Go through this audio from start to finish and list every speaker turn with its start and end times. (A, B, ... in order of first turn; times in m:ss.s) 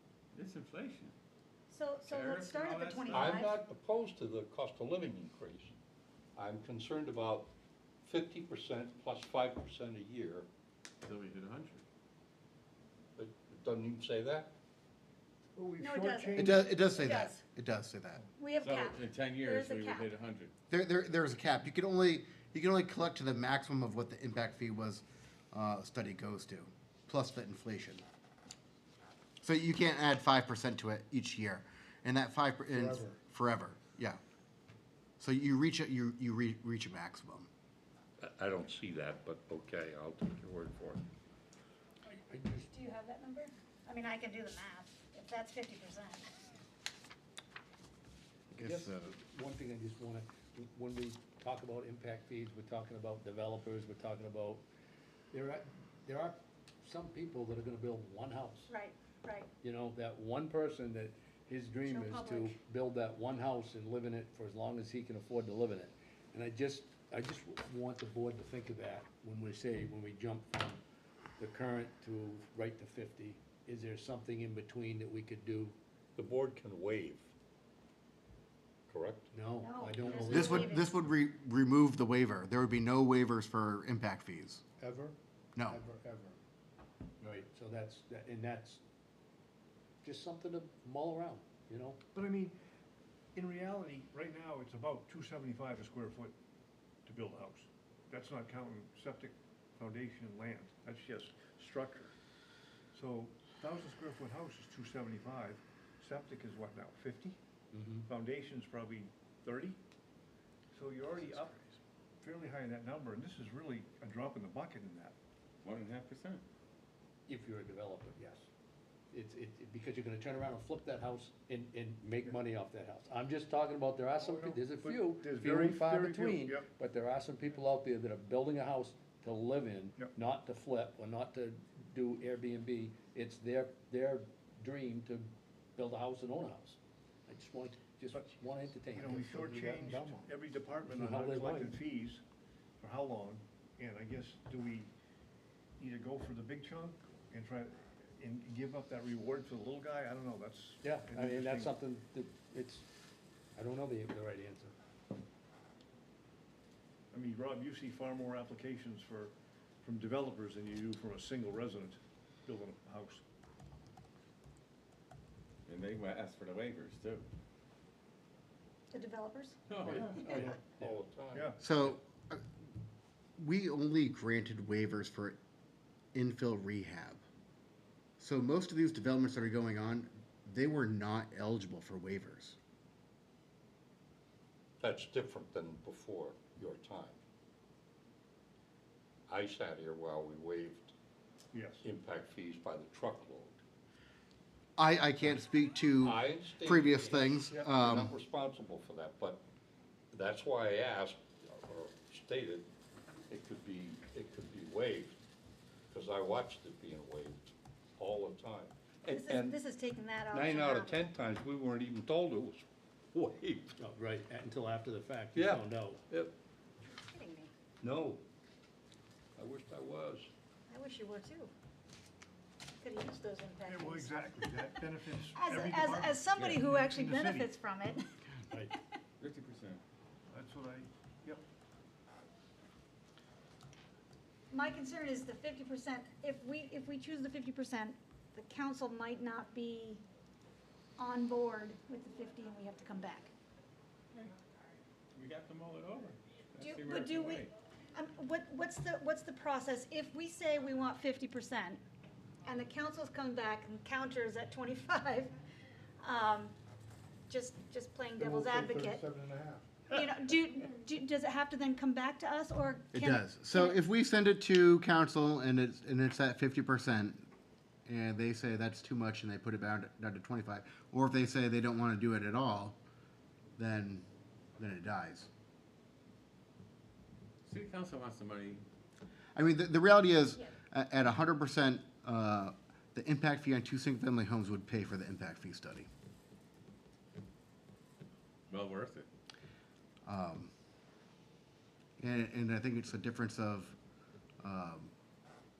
0:00.3-0:01.1 A
0:01.7-0:03.6 B
0:02.0-0:03.0 A
0:02.7-0:03.4 C
0:03.1-0:05.7 D
0:06.4-0:07.5 D
0:08.0-0:10.5 D
0:11.0-0:11.8 A
0:13.2-0:14.5 D
0:15.6-0:16.8 C
0:15.8-0:17.4 B
0:16.4-0:18.2 E
0:18.4-0:20.1 B
0:18.6-0:20.5 A
0:20.7-0:28.0 E
0:29.4-0:34.2 E
0:32.7-0:33.2 F
0:35.2-0:37.5 E
0:38.2-0:41.0 D
0:42.0-0:42.7 F
0:42.7-0:46.3 B
0:48.5-0:49.1 E
0:48.6-0:54.6 F
0:55.3-0:58.7 F
0:58.7-0:59.5 B
0:59.6-1:10.8 F
1:01.8-1:02.6 B
1:11.4-1:15.8 F
1:16.2-1:17.3 D
1:18.9-1:19.3 D
1:19.3-1:20.8 F
1:19.6-1:20.9 B
1:20.3-1:24.6 E
1:24.8-1:26.4 F
1:25.5-1:25.8 E
1:27.2-1:28.8 F
1:30.0-1:32.0 F
1:32.1-1:32.6 C
1:33.3-1:36.3 C
1:37.0-1:42.1 C
1:42.9-1:47.4 C
1:47.7-1:48.0 F
1:48.1-1:49.8 C
1:50.7-1:51.6 C
1:52.2-1:55.2 C
1:55.6-1:56.4 A
1:57.3-1:58.5 F
1:59.1-2:20.3 F
2:04.3-2:06.6 C
2:18.9-2:22.2 C
2:20.8-2:21.8 F
2:22.8-2:24.9 C
2:25.8-2:31.8 C
2:30.8-2:32.9 F
2:33.5-2:34.7 F
2:37.1-2:43.2 C
2:45.6-2:47.3 A
2:48.9-2:49.6 B
2:49.7-2:50.5 A
2:49.9-2:50.9 F
2:50.2-2:51.5 D
2:51.3-2:51.6 C
2:51.6-2:52.4 E
2:53.4-2:55.4 E
2:56.1-2:57.2 E
2:58.2-3:02.6 E
3:04.8-3:07.2 D
3:09.3-3:10.9 D
3:11.5-3:11.8 C
3:11.8-3:13.6 D
3:14.8-3:18.1 E
3:16.0-3:19.4 D
3:20.1-3:22.7 D
3:23.3-3:25.2 D
3:25.9-3:29.6 D
3:29.1-3:31.1 B
3:30.3-3:33.7 D
3:33.8-3:36.0 F
3:35.3-3:36.3 D
3:36.9-3:37.5 B
3:37.8-3:38.2 D
3:39.4-3:40.3 D
3:40.7-3:41.5 B
3:42.8-3:48.8 B
3:43.6-3:47.5 C
3:46.3-3:46.6 A
3:49.2-3:49.8 A
3:50.3-3:51.4 C
3:54.5-4:00.0 B
4:01.0-4:03.3 B
4:05.1-4:07.5 A
4:06.6-4:11.8 B
4:12.4-4:15.3 B
4:16.0-4:16.5 B
4:17.3-4:19.0 B
4:18.2-4:19.7 F
4:19.9-4:23.8 B
4:22.9-4:27.2 E
4:27.8-4:32.8 E
4:33.6-4:34.0 E
4:34.6-4:35.3 E
4:37.4-4:38.6 A
4:39.3-4:45.9 E
4:48.5-4:49.1 A
4:50.0-4:50.5 E
4:52.0-4:53.7 E
4:54.4-4:54.9 E